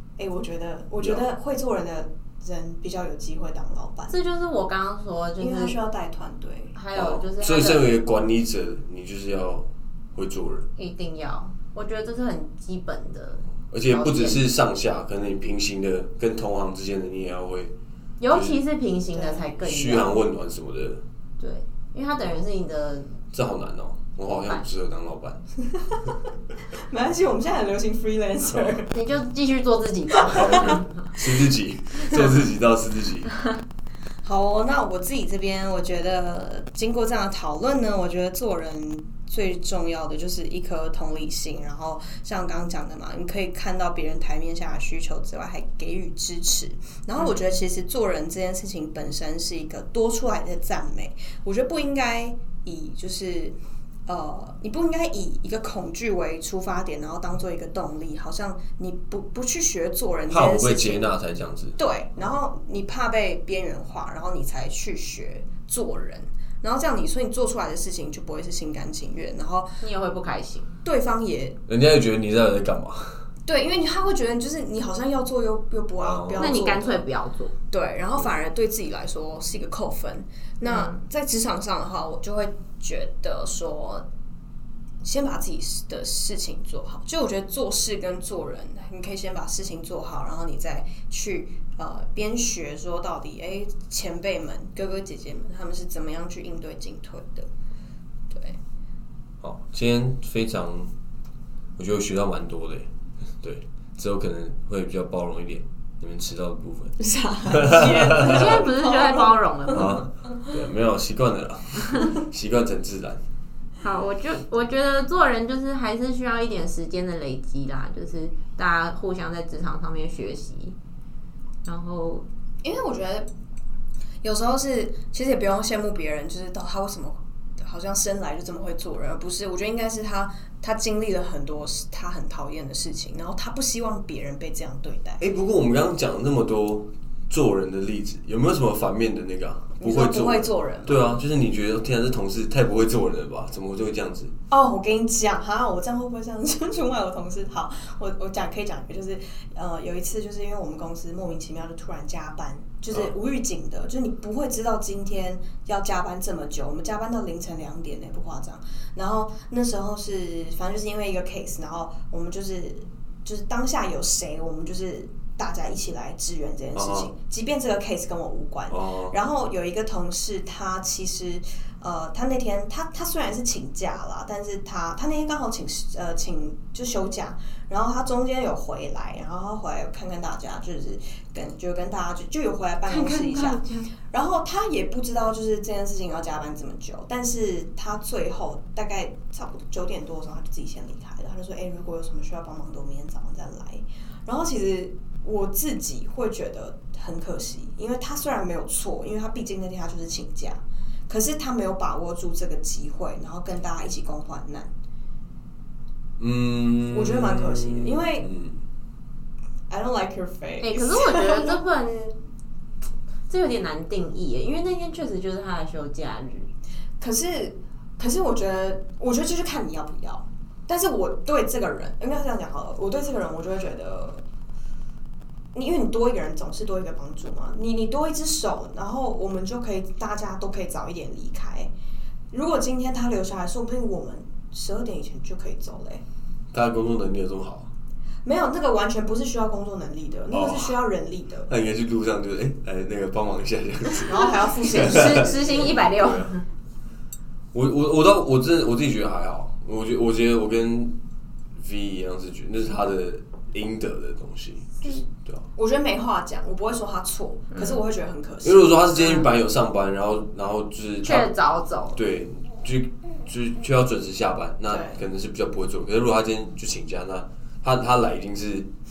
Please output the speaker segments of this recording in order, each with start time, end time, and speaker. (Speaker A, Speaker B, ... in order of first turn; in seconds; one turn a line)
Speaker A: 0.2-4.2
Speaker B: 4.1-5.8
Speaker A: 5.4-6.7
Speaker B: 6.8-7.9
Speaker C: 6.9-10.7
Speaker B: 10.8-14.4
Speaker C: 13.7-17.7
Speaker B: 18.2-20.2
Speaker C: 18.3-18.6
Speaker A: 19.1-19.4
Speaker C: 19.6-21.0
Speaker B: 21.4-23.2
Speaker C: 23.3-25.4
Speaker B: 24.3-24.6
Speaker A: 26.8-28.9
Speaker B: 28.9-30.9
Speaker A: 30.2-30.6
Speaker C: 30.3-33.3
Speaker A: 34.2-61.1
Speaker B: 47.2-47.5
Speaker C: 60.3-61.8
Speaker A: 61.8-69.8
Speaker B: 69.8-70.7
Speaker A: 70.8-71.6
Speaker C: 71.7-73.2
Speaker A: 73.5-77.0
Speaker C: 76.0-76.6
Speaker B: 76.4-77.5
Speaker A: 77.7-84.1
Speaker B: 80.6-81.0
Speaker A: 85.0-97.5
Speaker A: 98.3-98.6
Speaker C: 99.4-100.9
Speaker C: 101.8-102.9
Speaker C: 103.4-107.0
Speaker A: 107.0-110.5
Speaker C: 107.5-108.6
Speaker B: 108.1-110.0
Speaker C: 109.7-113.2
Speaker B: 113.8-120.8
Speaker B: 121.7-122.3
Speaker A: 122.6-123.3
Speaker A: 124.2-135.2
Speaker C: 135.2-144.3
Speaker A: 139.8-141.2
Speaker A: 144.5-204.7
Speaker C: 166.7-167.1
Speaker C: 168.7-169.2
Speaker B: 182.9-183.9
Speaker C: 206.2-208.6
Speaker A: 206.9-208.3
Speaker A: 209.7-211.6
Speaker B: 210.6-212.2
Speaker B: 213.3-216.5
Speaker A: 217.0-224.2
Speaker A: 225.5-231.7
Speaker A: 232.3-236.0
Speaker C: 236.5-237.7
Speaker A: 238.2-241.5
Speaker C: 240.3-240.8
Speaker C: 241.5-246.3
Speaker A: 244.1-245.8
Speaker B: 244.6-246.4
Speaker C: 247.5-250.9
Speaker C: 251.6-255.4
Speaker A: 255.6-259.3
Speaker B: 257.5-257.8
Speaker C: 258.4-261.3
Speaker B: 261.0-262.0
Speaker C: 261.9-268.7
Speaker A: 264.7-265.0